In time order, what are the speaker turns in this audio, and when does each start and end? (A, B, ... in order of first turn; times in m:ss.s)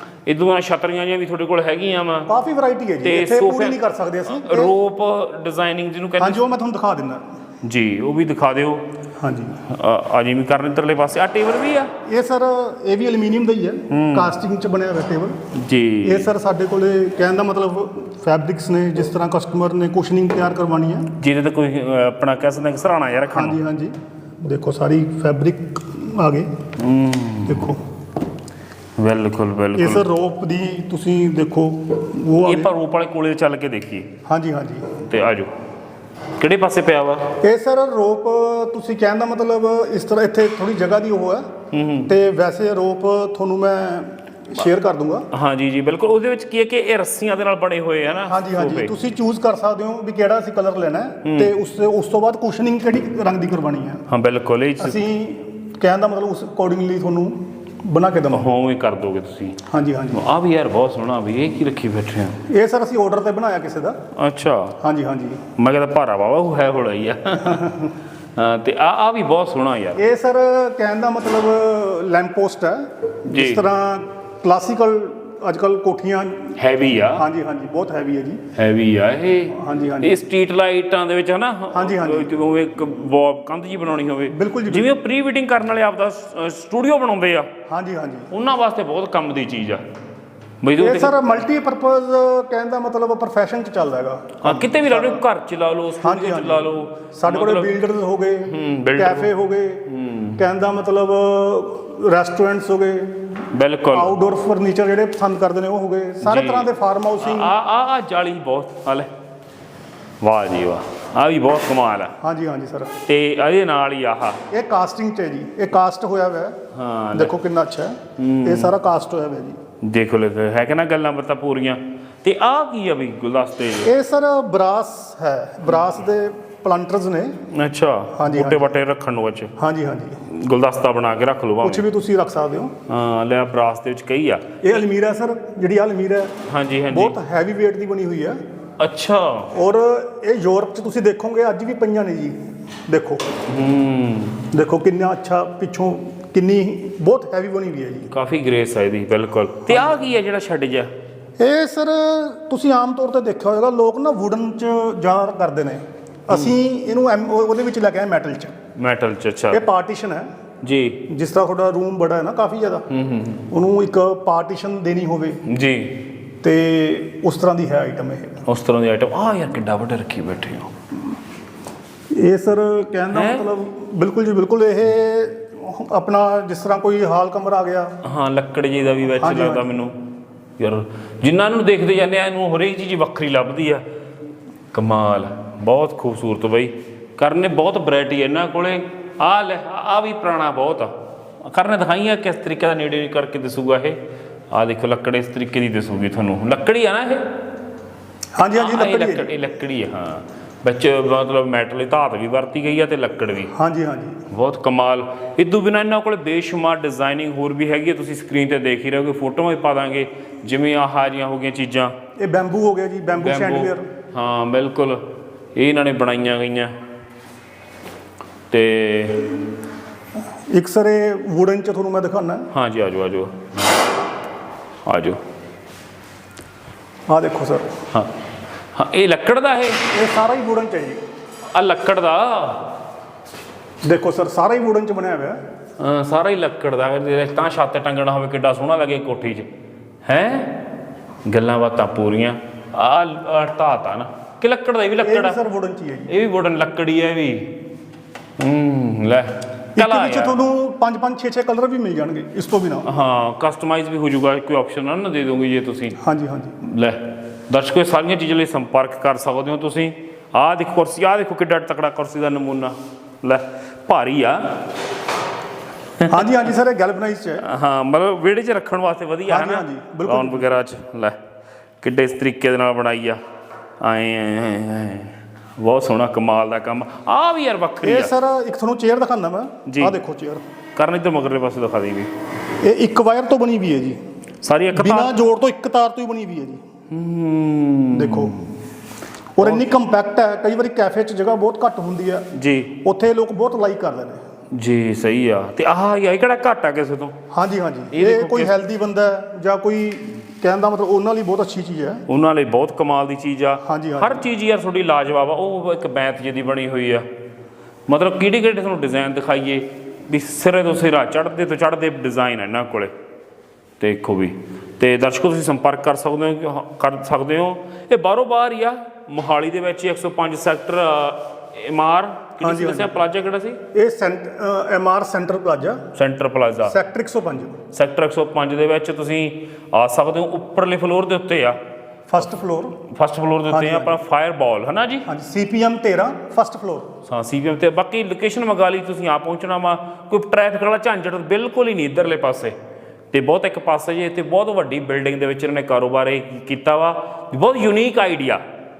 0:00.2-0:02.3 A
0:02.3-0:04.8 B
0:03.0-0:06.4 A
0:06.2-0:07.2 B
0:07.6-0:08.8 A
0:09.2-0:09.6 B
0:09.6-0:11.9 A
0:12.0-0:15.4 B
0:13.9-0:14.3 A
0:15.5-0:16.3 A
0:16.0-0:21.1 B
0:21.2-0:23.6 A
0:23.3-0:26.5 B
0:26.8-0:27.7 A
0:27.4-0:27.8 B
0:29.0-0:30.1 A
0:29.7-0:32.7 B
0:32.4-0:34.1 A
0:34.2-0:34.9 B
0:35.0-0:35.5 A
0:36.4-0:37.4 A
0:37.4-0:41.5 B
0:41.7-0:42.1 A
0:42.1-0:45.3 B
0:45.3-0:48.9 A
0:48.3-0:54.0 B
0:51.2-0:51.5 A
0:54.1-0:55.0 A
0:54.8-0:58.5 B
0:58.3-1:02.4 A
0:59.7-1:00.2 B
1:02.5-1:04.0 B
1:04.2-1:04.8 A
1:04.8-1:05.4 B
1:05.6-1:10.0 A
1:07.4-1:07.9 B
1:10.0-1:18.4 B
1:13.2-1:13.7 A
1:16.6-1:17.2 A
1:18.5-1:27.5 A
1:19.5-1:20.2 B
1:21.7-1:22.4 B
1:24.3-1:24.9 B
1:27.7-1:28.3 B
1:28.3-1:29.8 A
1:30.6-1:31.3 A
1:30.8-1:35.2 B
1:34.4-1:37.7 A
1:36.0-1:43.4 B
1:38.5-1:39.3 A
1:39.9-1:40.4 A
1:43.5-1:44.1 A
1:43.9-1:47.5 B
1:46.2-1:49.1 A
1:50.2-1:52.1 A
1:52.2-1:52.9 B
1:53.0-1:54.4 A
1:54.5-1:56.6 B
1:56.7-1:57.3 A
1:57.1-1:59.6 B
1:58.2-1:58.7 A
1:59.8-2:03.9 A
2:03.8-2:07.3 B
2:07.5-2:09.5 A
2:08.2-2:08.8 B
2:09.6-2:10.2 B
2:10.2-2:11.8 A
2:11.6-2:12.7 B
2:12.9-2:14.7 A
2:14.6-2:16.4 B
2:16.5-2:17.1 A
2:16.9-2:18.4 B
2:18.8-2:19.5 A
2:19.5-2:23.2 B
2:23.5-2:24.4 A
2:24.5-2:28.1 B
2:28.1-2:30.9 A
2:31.4-2:38.5 B
2:38.8-2:39.6 A
2:39.5-2:40.3 B
2:40.6-2:41.0 A
2:41.1-2:42.8 B
2:42.9-2:43.4 A
2:43.5-2:45.4 B
2:45.4-2:46.0 A
2:46.4-2:48.4 B
2:48.4-2:50.7 A
2:52.1-2:57.9 B
2:53.1-2:53.5 A
2:58.0-2:59.9 A
2:59.2-2:59.8 B
3:00.6-3:03.8 A
3:04.7-3:14.0 A
3:14.5-3:17.3 A
3:18.4-3:19.4 B
3:18.5-3:23.5 A
3:23.5-3:24.2 B
3:24.3-3:31.9 A
3:32.2-3:33.9 B
3:33.2-3:36.7 A
3:38.5-3:39.4 A
3:40.5-3:42.5 B
3:42.5-3:43.3 A
3:44.8-3:45.2 A
3:47.1-3:47.8 B
3:48.7-3:49.9 A
3:49.9-3:51.0 B
3:51.5-3:52.7 A
3:53.8-3:55.4 B
3:55.8-3:59.5 A
4:00.0-4:00.6 A
4:01.2-4:05.4 A
4:05.0-4:06.1 B
4:06.1-4:07.5 A
4:08.4-4:10.4 A
4:09.8-4:12.9 B
4:12.8-4:16.0 A
4:16.0-4:16.6 B
4:16.6-4:24.7 A
4:26.1-4:27.4 B
4:27.4-4:31.2 A
4:29.3-4:30.6 B
4:31.8-4:33.2 A
4:33.8-4:38.1 A
4:37.8-4:40.4 B
4:39.6-4:40.0 A
4:40.8-4:42.1 A
4:42.6-4:44.0 B
4:44.4-4:45.1 A
4:44.7-4:46.6 B
4:46.9-4:48.5 A
4:47.9-4:48.4 B
4:49.4-4:52.3 B
4:52.3-4:52.8 A
4:52.8-4:54.2 B
4:54.5-4:57.2 A
4:57.3-5:02.0 B
4:57.9-4:58.6 A
5:02.1-5:07.0 A
5:03.6-5:04.2 B
5:07.9-5:12.9 A
5:13.8-5:23.6 A
5:22.4-5:23.0 B
5:23.7-5:25.8 B
5:25.9-5:26.8 A
5:26.6-5:27.6 B
5:27.7-5:31.6 A
5:32.1-5:32.8 B
5:32.9-5:35.1 A
5:33.5-5:34.0 B
5:35.0-5:36.9 B
5:37.1-5:42.5 A
5:43.1-5:48.4 A